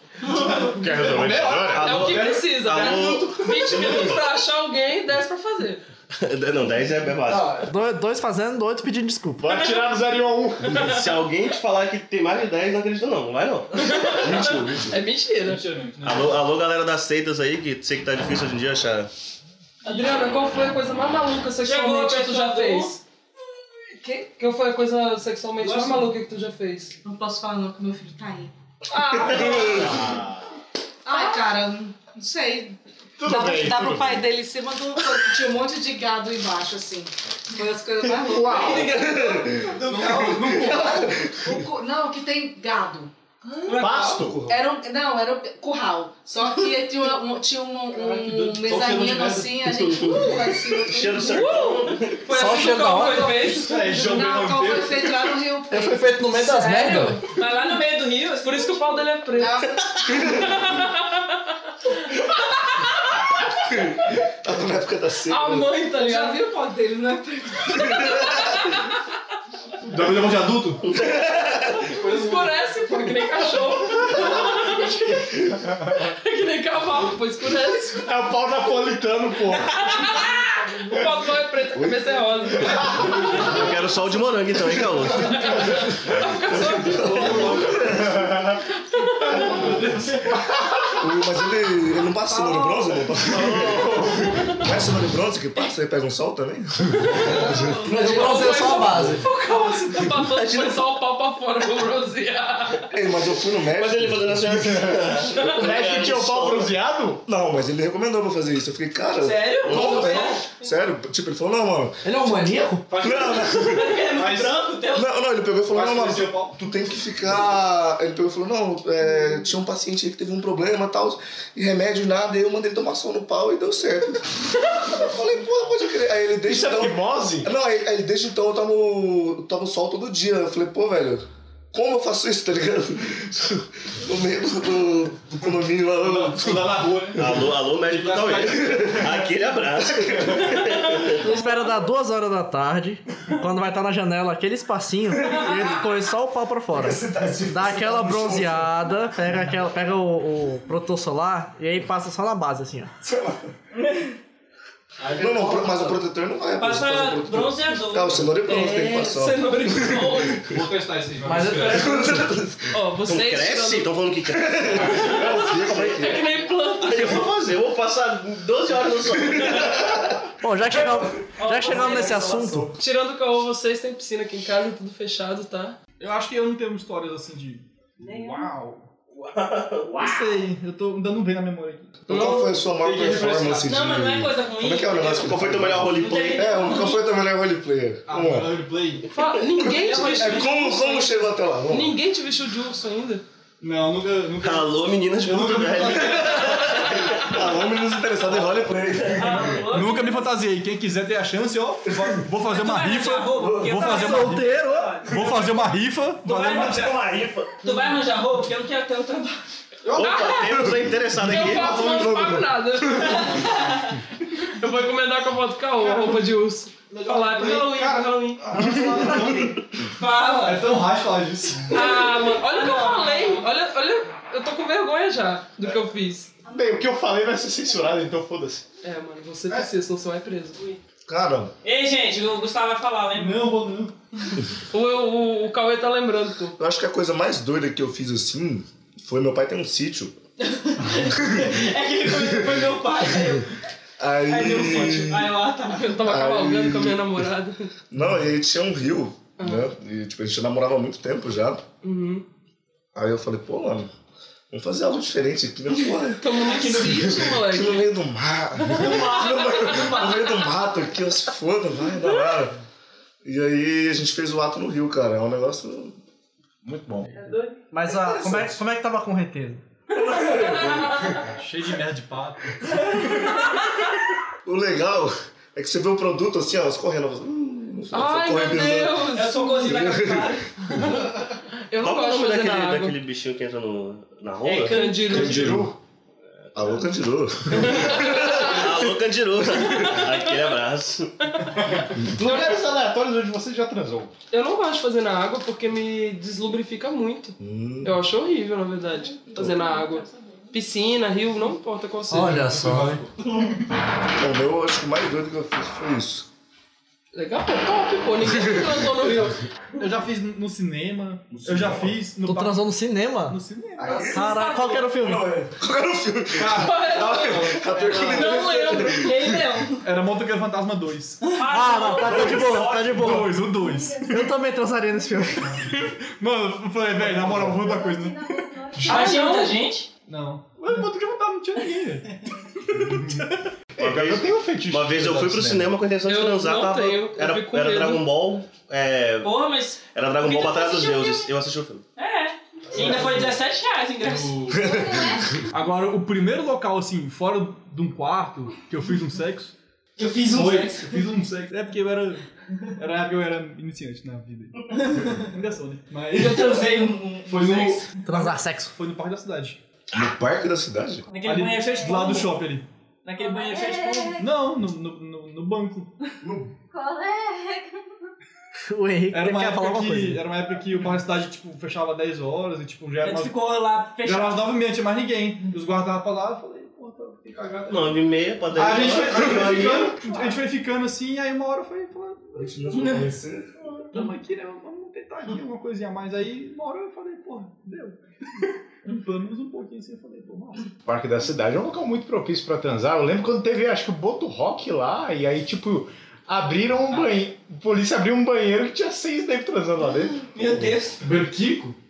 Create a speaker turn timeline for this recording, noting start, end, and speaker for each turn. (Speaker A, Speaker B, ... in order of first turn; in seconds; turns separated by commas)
Speaker A: 0.3-3.1, Speaker B: 0.6-1.9, Speaker C: 1.6-4.2, Speaker D: 1.8-5.8, Speaker C: 6.2-7.6, Speaker E: 7.3-9.5, Speaker B: 9.4-11.0, Speaker C: 10.8-14.2, Speaker D: 13.8-15.6, Speaker F: 14.1-15.0, Speaker A: 15.4-16.4, Speaker C: 16.0-19.1, Speaker D: 19.8-23.0, Speaker G: 21.6-22.9, Speaker D: 24.0-26.9, Speaker G: 25.6-26.1, Speaker H: 27.0-28.5, Speaker D: 28.9-29.9, Speaker F: 29.1-30.0, Speaker B: 29.5-30.4, Speaker H: 31.0-38.7, Speaker B: 33.2-34.3, Speaker B: 38.2-39.0, Speaker G: 38.5-40.7, Speaker F: 38.9-41.6, Speaker A: 39.7-41.1, Speaker H: 40.7-43.1, Speaker D: 43.5-43.9, Speaker G: 43.6-44.3, Speaker B: 43.8-44.5, Speaker H: 44.5-51.7, Speaker A: 47.9-49.7, Speaker C: 49.7-52.2, Speaker D: 51.2-53.8, Speaker G: 52.2-54.0, Speaker E: 52.3-53.5, Speaker H: 53.2-57.2, Speaker A: 53.6-55.3, Speaker E: 55.7-57.2, Speaker D: 56.3-57.7, Speaker G: 57.2-59.1, Speaker D: 58.4-61.4, Speaker H: 59.3-60.0, Speaker D: 61.9-62.1, Speaker F: 63.6-65.7, Speaker D: 65.3-66.4, Speaker H: 65.9-68.1, Speaker F: 67.8-68.2, Speaker D: 67.8-68.9, Speaker A: 69.8-70.9, Speaker C: 70.9-71.8, Speaker D: 71.9-75.3, Speaker A: 71.9-72.5, Speaker D: 75.9-78.1, Speaker B: 78.0-80.1, Speaker D: 79.7-80.3, Speaker A: 80.1-81.2, Speaker D: 80.9-83.5, Speaker F: 81.7-83.8, Speaker C: 83.3-85.5, Speaker F: 84.8-88.4, Speaker D: 85.1-87.5, Speaker A: 86.8-88.1, Speaker B: 88.0-88.6, Speaker D: 88.8-89.7, Speaker A: 89.3-90.4, Speaker B: 90.6-90.8, Speaker F: 90.9-99.1, Speaker C: 93.2-94.3, Speaker D: 97.0-102.9, Speaker A: 97.2-97.5, Speaker E: 97.8-99.2, Speaker C: 100.2-100.9, Speaker F: 102.9-105.1, Speaker C: 103.7-106.8, Speaker B: 105.4-107.2, Speaker F: 107.2-114.0, Speaker G: 109.2-110.5, Speaker C: 109.6-110.3, Speaker E: 112.0-112.8, Speaker A: 112.9-113.5, Speaker G: 113.6-115.1, Speaker A: 114.1-114.6, Speaker F: 114.9-136.9, Speaker A: 115.7-116.6, Speaker B: 126.4-127.5, Speaker A: 135.9-139.1, Speaker C: 137.2-141.2, Speaker F: 138.7-139.2, Speaker F: 139.8-140.9, Speaker E: 141.2-152.9, Speaker F: 145.2-145.7, Speaker F: 146.7-148.7, Speaker F: 153.0-153.5, Speaker G: 153.8-154.1, Speaker A: 155.0-155.9, Speaker F: 155.1-160.6, Speaker G: 156.6-158.9, Speaker D: 158.4-160.4, Speaker A: 160.5-162.1, Speaker E: 161.2-162.2, Speaker D: 161.4-161.9, Speaker F: 161.7-162.7, Speaker D: 162.7-163.9, Speaker C: 163.1-165.8, Speaker F: 164.3-166.3, Speaker D: 165.1-167.3, Speaker C: 166.8-170.1, Speaker F: 169.2-170.1, Speaker E: 170.4-172.7, Speaker G: 171.4-172.3, Speaker F: 171.7-172.7, Speaker D: 172.8-175.8, Speaker A: 176.0-178.9, Speaker D: 178.0-178.5, Speaker C: 179.2-180.3, Speaker A: 179.8-183.8, Speaker F: 182.1-188.7, Speaker G: 183.6-185.4, Speaker C: 185.1-186.7, Speaker G: 186.0-187.0, Speaker A: 188.1-189.1, Speaker D: 189.1-193.2, Speaker F: 189.6-192.0, Speaker G: 189.7-190.7, Speaker A: 193.6-197.2, Speaker C: 194.4-197.3, Speaker F: 196.5-199.7, Speaker C: 199.0-199.3, Speaker G: 199.1-200.3, Speaker A: 199.7-206.9, Speaker G: 202.4-205.6, Speaker F: 203.4-203.8, Speaker E: 203.8-205.0, Speaker G: 206.2-209.4, Speaker C: 207.0-207.5, Speaker A: 209.8-210.4, Speaker C: 209.9-211.9, Speaker D: 209.9-210.5, Speaker F: 211.1-213.2, Speaker D: 211.2-213.5, Speaker G: 213.2-214.0, Speaker D: 214.2-218.4, Speaker A: 215.8-216.3, Speaker A: 216.9-219.6, Speaker G: 219.9-220.8, Speaker A: 220.4-221.8, Speaker G: 221.7-223.5, Speaker D: 221.7-226.3, Speaker B: 226.4-228.6, Speaker D: 228.8-230.6, Speaker F: 231.1-231.5, Speaker G: 231.6-233.6, Speaker A: 233.1-233.9, Speaker D: 234.7-236.5, Speaker F: 236.6-240.2, Speaker G: 240.4-243.5, Speaker F: 241.0-242.8, Speaker F: 244.0-245.5, Speaker G: 244.2-246.0, Speaker D: 245.7-247.7, Speaker F: 246.0-247.2, Speaker F: 247.9-251.6, Speaker D: 249.4-249.7, Speaker D: 251.8-252.2, Speaker F: 252.9-253.9, Speaker F: 254.5-262.5, Speaker D: 256.2-257.9, Speaker G: 256.4-257.2, Speaker D: 258.6-260.0, Speaker F: 263.2-265.9, Speaker B: 266.7-266.9, Speaker D: 267.1-267.5, Speaker E: 267.7-269.6, Speaker F: 268.1-268.4, Speaker F: 269.9-271.2, Speaker D: 270.4-270.9, Speaker A: 271.1-273.0, Speaker F: 274.4-280.9, Speaker D: 277.9-279.8, Speaker G: 279.1-280.5, Speaker D: 281.7-282.9, Speaker C: 281.8-284.8, Speaker G: 284.4-285.2, Speaker D: 284.6-285.6, Speaker F: 285.0-285.7, Speaker F: 286.5-288.9, Speaker D: 287.6-288.6, Speaker C: 288.2-291.1, Speaker F: 289.5-290.0, Speaker D: 289.7-290.1, Speaker D: 291.3-291.6, Speaker B: 292.1-294.1, Speaker D: 294.3-302.4, Speaker F: 297.4-297.9, Speaker E: 302.1-303.0, Speaker A: 302.3-303.6, Speaker F: 304.1-306.2, Speaker D: 307.1-309.4, Speaker F: 308.2-308.9, Speaker A: 308.9-312.6, Speaker F: 311.3-311.9, Speaker E: 312.2-313.4, Speaker A: 313.2-314.3, Speaker F: 313.8-319.7, Speaker E: 313.9-315.4, Speaker A: 316.3-318.4, Speaker D: 316.6-319.1, Speaker G: 318.4-319.8, Speaker A: 319.8-321.4, Speaker G: 321.2-322.7, Speaker E: 321.5-325.8, Speaker A: 322.3-324.3, Speaker I: 323.6-323.9, Speaker A: 325.5-329.3, Speaker I: 327.6-329.2, Speaker G: 328.8-329.9, Speaker D: 328.9-329.5, Speaker A: 330.1-333.3, Speaker B: 333.8-335.7, Speaker C: 333.8-341.8, Speaker D: 336.1-338.1, Speaker G: 339.2-341.3, Speaker G: 341.9-344.5, Speaker A: 342.7-343.3, Speaker A: 344.0-344.7, Speaker F: 344.6-345.3, Speaker I: 344.6-345.2, Speaker A: 345.5-349.5, Speaker G: 350.0-351.1, Speaker A: 350.3-352.2, Speaker A: 352.8-359.6, Speaker G: 354.7-355.2, Speaker G: 356.1-357.9, Speaker E: 358.1-358.7, Speaker F: 359.9-361.1, Speaker G: 361.1-362.4, Speaker A: 361.2-362.7, Speaker G: 363.0-364.2, Speaker I: 363.1-364.2, Speaker A: 364.2-365.9, Speaker F: 366.2-366.5, Speaker I: 366.7-367.8, Speaker E: 368.7-370.2, Speaker A: 369.1-373.4, Speaker G: 373.0-374.5, Speaker A: 373.9-382.8, Speaker C: 377.7-380.0, Speaker F: 379.3-379.8, Speaker F: 382.4-383.8, Speaker A: 383.8-390.7, Speaker B: 390.8-400.7, Speaker G: 400.3-401.0, Speaker A: 401.0-401.8